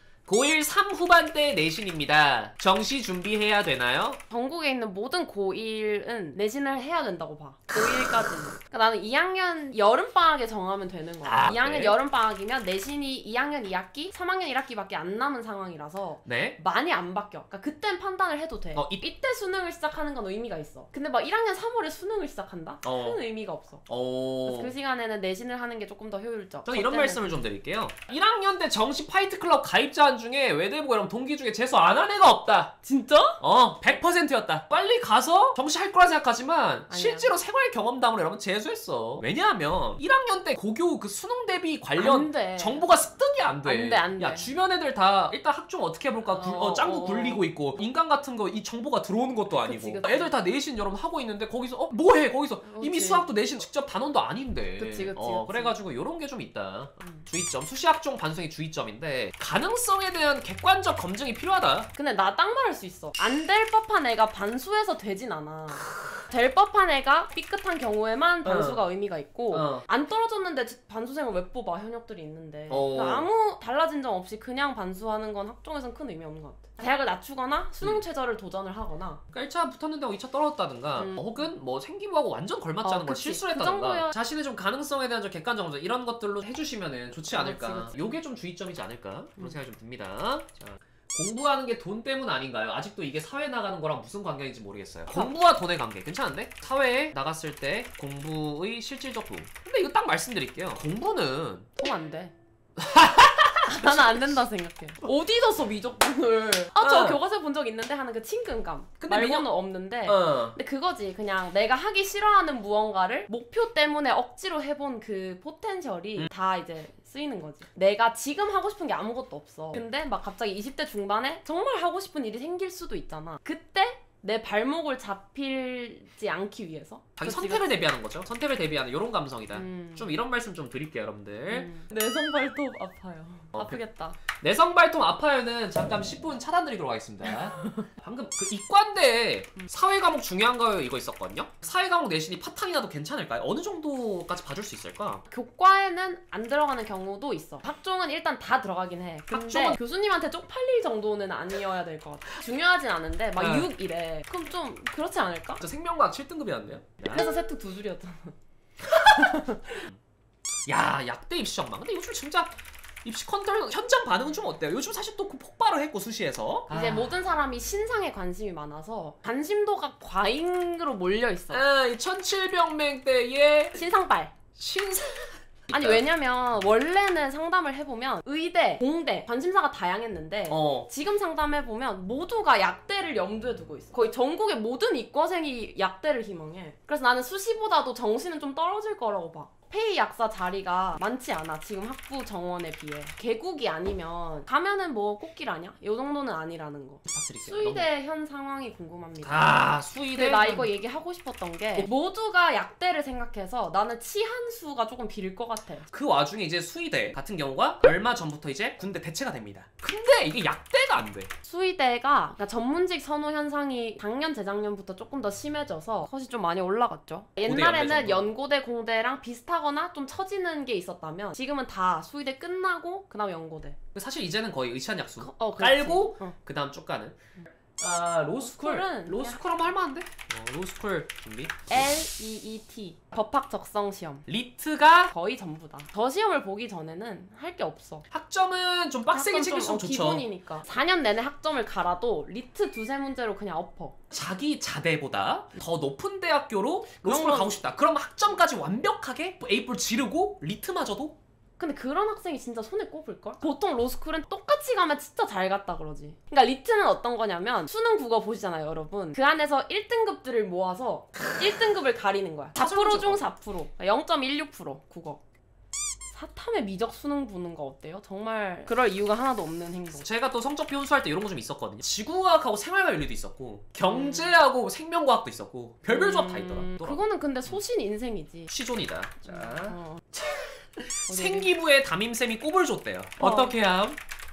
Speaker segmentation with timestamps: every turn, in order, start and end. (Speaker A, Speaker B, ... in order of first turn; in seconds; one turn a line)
Speaker A: 0.2-4.2
Speaker B: 4.3-23.9
Speaker A: 7.7-8.4
Speaker A: 11.2-11.9
Speaker A: 16.2-16.6
Speaker A: 18.7-19.0
Speaker A: 22.8-23.2
Speaker A: 23.9-24.7
Speaker B: 24.4-27.4
Speaker A: 26.6-32.8
Speaker B: 32.8-33.4
Speaker A: 33.4-61.9
Speaker B: 36.9-37.3
Speaker B: 42.0-42.9
Speaker B: 43.6-44.5
Speaker B: 46.3-47.6
Speaker B: 49.5-50.4
Speaker B: 52.6-53.3
Speaker B: 54.8-55.8
Speaker B: 57.0-57.3
Speaker B: 61.9-79.2
Speaker A: 65.7-66.2
Speaker A: 68.4-68.8
Speaker A: 69.5-69.8
Speaker A: 72.7-73.3
Speaker A: 79.3-101.7
Speaker B: 80.9-81.5
Speaker B: 82.8-84.1
Speaker B: 87.3-88.2
Speaker B: 101.8-102.3
Speaker A: 102.8-104.3
Speaker B: 103.7-127.9
Speaker A: 106.8-107.2
Speaker A: 109.0-109.5
Speaker A: 110.0-110.6
Speaker A: 127.2-131.7
Speaker B: 129.5-130.2
Speaker B: 131.5-134.2
Speaker A: 133.5-133.8
Speaker A: 134.4-145.2
Speaker B: 137.3-137.9
Speaker B: 145.3-155.6
Speaker A: 149.3-149.8
Speaker A: 153.4-153.7
Speaker A: 155.6-157.4
Speaker B: 157.1-158.3
Speaker A: 158.8-159.9
Speaker B: 159.0-159.8
Speaker A: 160.7-167.2
Speaker B: 166.7-171.6
Speaker A: 171.5-173.8
Speaker B: 173.7-174.3
Speaker A: 174.6-176.0
Speaker B: 175.7-205.8
Speaker A: 180.5-180.9
Speaker A: 197.1-197.8
Speaker A: 199.2-200.7
Speaker A: 205.9-211.3
Speaker B: 211.4-223.8
Speaker A: 217.4-218.3
Speaker A: 223.9-227.2
Speaker B: 225.2-226.3
Speaker A: 227.8-231.7
Speaker B: 228.4-229.6
Speaker B: 231.7-234.2
Speaker A: 234.2-235.1
Speaker B: 235.1-238.0
Speaker A: 238.1-240.2
Speaker B: 239.1-243.9
Speaker A: 244.1-251.2
Speaker B: 247.0-247.6
Speaker B: 251.6-265.2
Speaker A: 261.1-261.6
Speaker A: 262.5-263.2
Speaker B: 266.1-270.1
Speaker A: 269.9-277.6
Speaker B: 273.9-274.4
Speaker B: 275.8-278.5
Speaker A: 278.5-284.0
Speaker B: 279.2-280.0
Speaker B: 281.1-281.5
Speaker B: 283.2-283.5